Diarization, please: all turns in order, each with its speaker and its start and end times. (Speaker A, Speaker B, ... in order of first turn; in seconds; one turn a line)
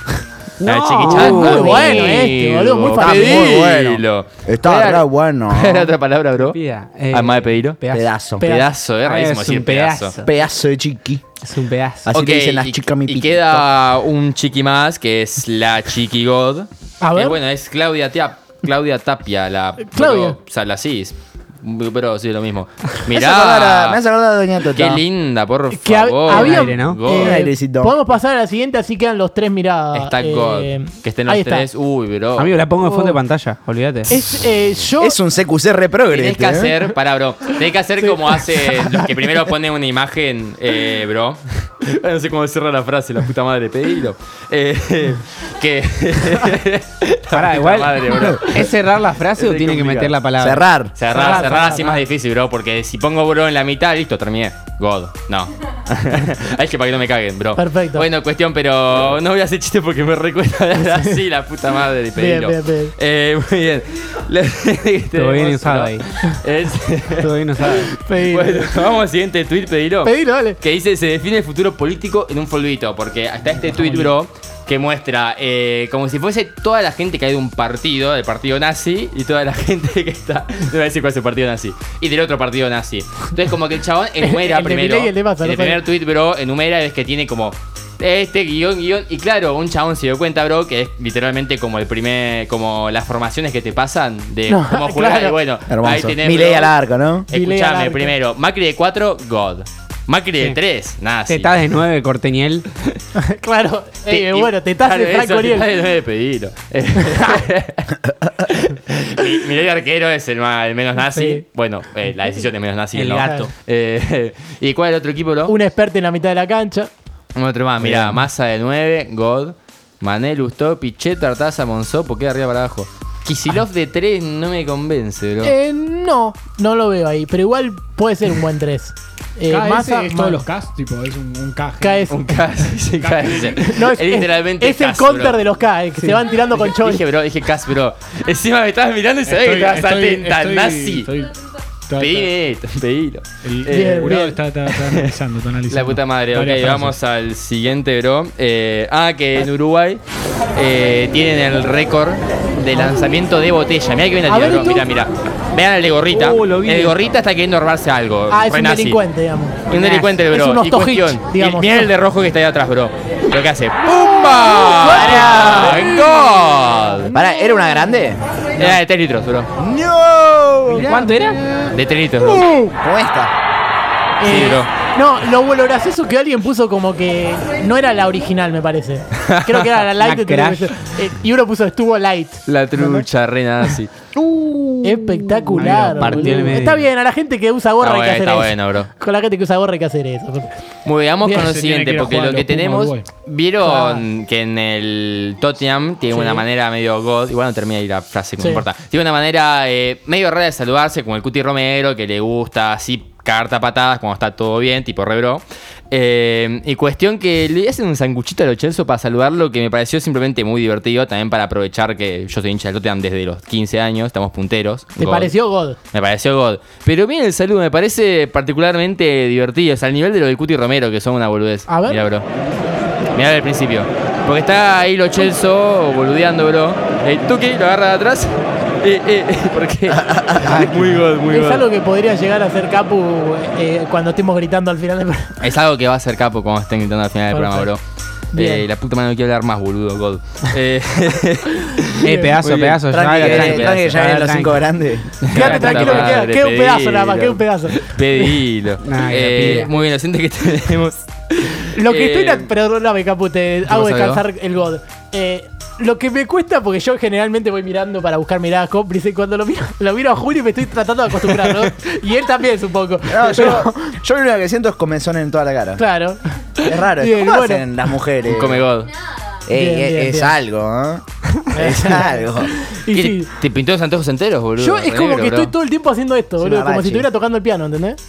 Speaker A: 0.6-2.2
Speaker B: 0.6-6.6
Speaker C: 1.1-3.6
Speaker D: 3.0-5.9
Speaker A: 6.4-8.1
Speaker B: 7.1-7.8
Speaker D: 7.9-8.5
Speaker C: 8.4-8.7
Speaker B: 8.4-10.2
Speaker A: 9.0-10.3
Speaker D: 10.2-11.2
Speaker A: 11.4-12.1
Speaker B: 12.1-24.0
Speaker D: 12.1-13.7
Speaker C: 17.0-17.4
Speaker C: 19.9-20.4
Speaker D: 23.1-25.0
Speaker B: 24.7-27.4
Speaker C: 25.7-31.7
Speaker A: 26.3-27.1
Speaker D: 27.1-28.0
Speaker B: 29.9-32.6
Speaker A: 32.4-34.1
Speaker C: 32.8-33.2
Speaker C: 34.1-35.2
Speaker D: 35.0-36.7
Speaker B: 36.1-50.2
Speaker A: 47.3-50.6
Speaker D: 50.4-50.9
Speaker B: 51.0-96.8
Speaker C: 51.1-52.0
Speaker C: 57.6-58.1
Speaker C: 62.1-62.9
Speaker A: 65.1-66.0
Speaker A: 67.2-67.9
Speaker C: 67.9-68.8
Speaker C: 70.0-70.6
Speaker C: 84.2-85.8
Speaker C: 94.5-95.4
Speaker D: 95.7-97.3
Speaker B: 97.3-101.7
Speaker C: 97.3-98.2
Speaker A: 101.3-102.7
Speaker C: 103.2-105.7
Speaker B: 104.1-115.5
Speaker C: 111.0-111.4
Speaker A: 112.9-113.5
Speaker C: 113.2-113.5
Speaker C: 115.5-116.9
Speaker B: 117.3-125.5
Speaker A: 117.8-118.2
Speaker C: 125.4-130.5
Speaker E: 129.5-132.1
Speaker C: 131.8-132.2
Speaker B: 132.1-135.4
Speaker E: 133.0-133.7
Speaker C: 133.5-137.0
Speaker B: 136.4-141.1
Speaker E: 139.3-141.3
Speaker E: 141.9-142.3
Speaker B: 142.0-145.2
Speaker E: 143.4-146.9
Speaker C: 143.7-144.4
Speaker B: 145.7-150.0
Speaker B: 150.6-159.0
Speaker C: 152.7-153.0
Speaker C: 154.3-154.9
Speaker A: 156.1-157.1
Speaker C: 158.3-161.9
Speaker B: 159.7-167.1
Speaker D: 164.8-165.9
Speaker C: 164.9-165.9
Speaker D: 167.1-168.7
Speaker B: 168.6-169.5
Speaker D: 169.6-173.3
Speaker A: 170.7-171.4
Speaker B: 171.7-172.5
Speaker C: 174.2-182.4
Speaker B: 174.3-174.7
Speaker A: 180.0-180.7
Speaker B: 182.5-183.9
Speaker D: 182.8-183.1
Speaker D: 184.2-184.7
Speaker A: 184.4-184.8
Speaker C: 184.8-190.5
Speaker A: 185.5-186.9
Speaker B: 187.8-188.9
Speaker B: 190.8-215.3
Speaker C: 191.2-191.5
Speaker E: 191.3-193.1
Speaker C: 193.6-194.1
Speaker C: 196.1-196.4
Speaker C: 198.4-198.7
Speaker C: 215.0-215.8
Speaker B: 215.9-222.3
Speaker C: 221.7-222.0
Speaker B: 223.1-231.7
Speaker D: 230.0-230.4
Speaker A: 230.4-231.0
Speaker C: 231.3-235.4
Speaker B: 235.4-237.8
Speaker C: 237.3-237.7
Speaker C: 238.3-238.7
Speaker B: 238.3-244.0
Speaker A: 242.0-244.7
Speaker C: 242.1-242.3
Speaker D: 242.9-245.1
Speaker B: 245.2-252.5
Speaker C: 245.3-248.4
Speaker A: 245.3-246.2
Speaker A: 248.8-249.7
Speaker C: 251.7-263.7
Speaker B: 253.7-254.2
Speaker D: 263.1-265.8
Speaker C: 265.8-267.6
Speaker D: 266.6-268.6
Speaker B: 268.2-268.9
Speaker D: 269.5-272.5
Speaker C: 269.5-270.4
Speaker C: 271.5-273.3
Speaker B: 272.9-275.5
Speaker C: 274.6-278.0
Speaker D: 276.4-277.1